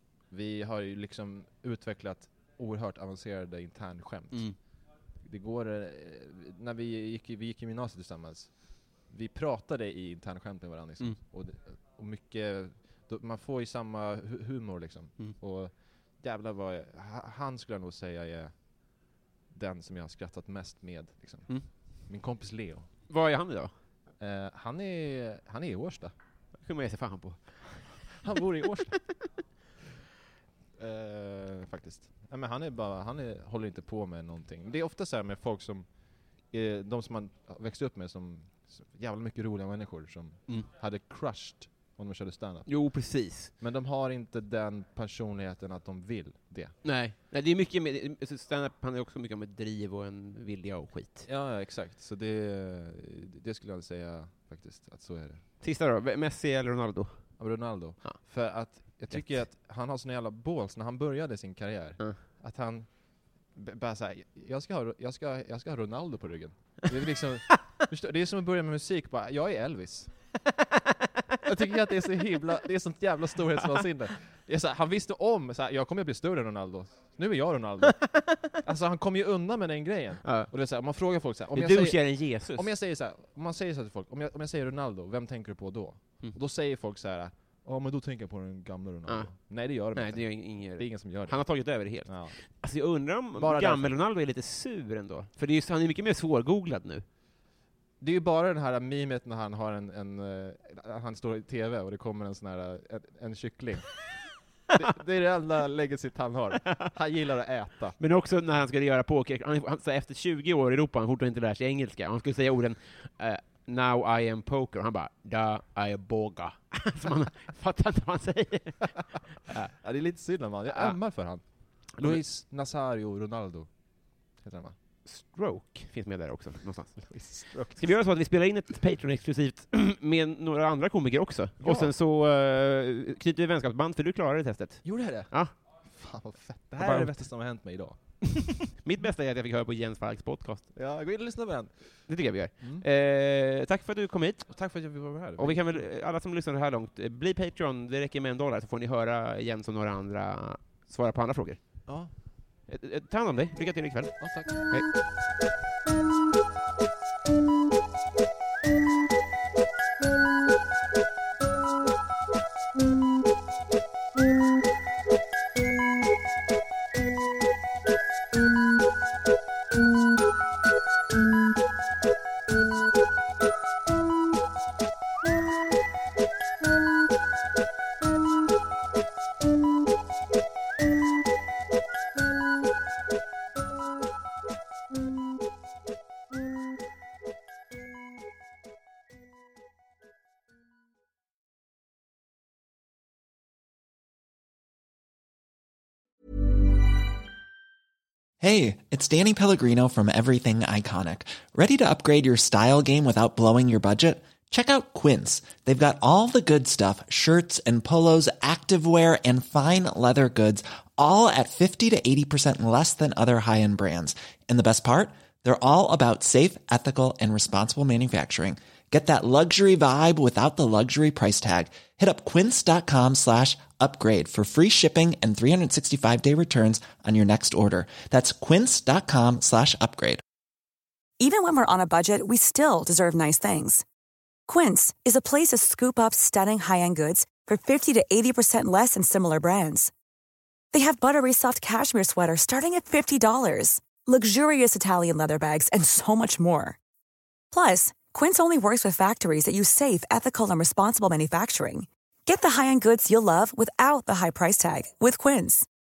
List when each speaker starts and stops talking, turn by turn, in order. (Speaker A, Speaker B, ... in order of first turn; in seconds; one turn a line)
Speaker A: 0.3-4.5
Speaker A: 5.2-8.5
Speaker A: 9.1-18.5
Speaker A: 19.5-22.9
Speaker B: 23.1-23.7
Speaker A: 24.2-26.1
Speaker B: 26.6-28.4
Speaker A: 28.2-29.0
Speaker A: 30.8-35.9
Speaker A: 36.4-42.7
Speaker B: 42.7-43.5
Speaker A: 43.6-46.7
Speaker B: 46.8-51.2
Speaker A: 51.2-55.4
Speaker B: 55.6-57.2
Speaker A: 57.4-62.9
Speaker B: 59.1-59.4
Speaker A: 63.5-70.1
Speaker A: 71.4-91.4
Speaker B: 77.9-78.6
Speaker B: 80.2-80.5
Speaker B: 81.5-82.7
Speaker B: 89.1-97.0
Speaker A: 92.0-92.3
Speaker A: 93.3-93.9
Speaker A: 98.0-104.1
Speaker A: 104.7-108.0
Speaker B: 106.7-106.9
Speaker B: 108.0-119.7
Speaker A: 119.7-123.7
Speaker B: 120.7-121.0
Speaker B: 121.9-122.2
Speaker A: 124.4-124.7
Speaker B: 125.0-135.5
Speaker A: 127.1-127.8
Speaker A: 131.6-131.9
Speaker A: 134.8-135.3
Speaker A: 135.8-138.2
Speaker B: 136.8-137.1
Speaker B: 138.3-140.7
Speaker A: 140.7-141.7
Speaker B: 142.1-144.7
Speaker A: 142.6-142.8
Speaker A: 144.5-145.8
Speaker B: 145.4-151.8
Speaker A: 151.9-152.1
Speaker B: 152.7-154.9
Speaker A: 154.2-154.6
Speaker C: 198.4-230.2
Speaker D: 231.2-233.8
Speaker D: 234.5-239.9
Speaker D: 240.7-246.8
Speaker D: 247.5-255.7